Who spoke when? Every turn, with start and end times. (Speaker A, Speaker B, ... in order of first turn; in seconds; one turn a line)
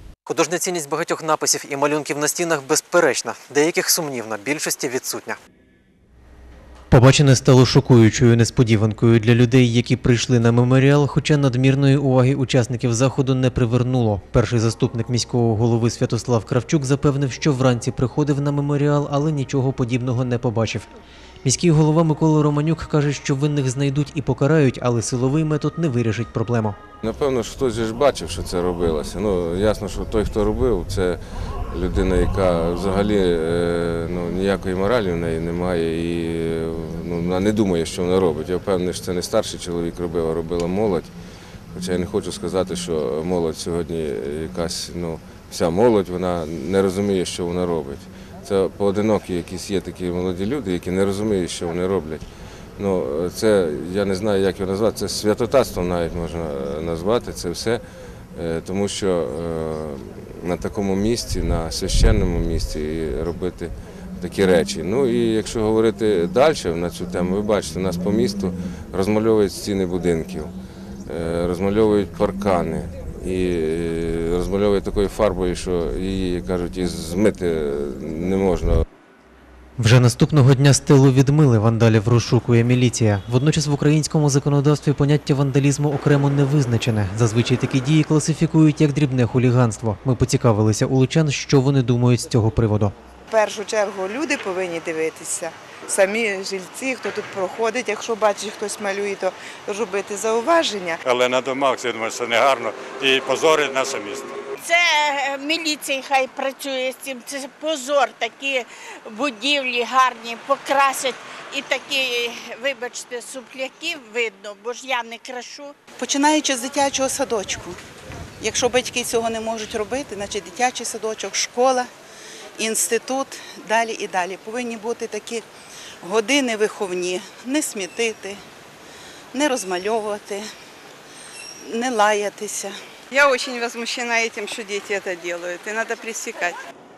Speaker A: 0.2-5.4
Speaker A: 6.9-20.9
Speaker A: 21.4-26.8
Speaker B: 27.0-41.1
Speaker B: 41.7-52.2
Speaker B: 52.8-57.8
Speaker B: 58.4-70.5
Speaker B: 71.1-78.8
Speaker A: 79.8-92.9
Speaker C: 93.3-101.0
Speaker D: 101.0-104.4
Speaker E: 104.6-115.7
Speaker F: 116.0-117.8
Speaker F: 118.4-121.9
Speaker F: 122.6-125.4
Speaker F: 126.0-128.4
Speaker F: 129.3-130.4
Speaker F: 131.6-132.7
Speaker G: 133.1-136.6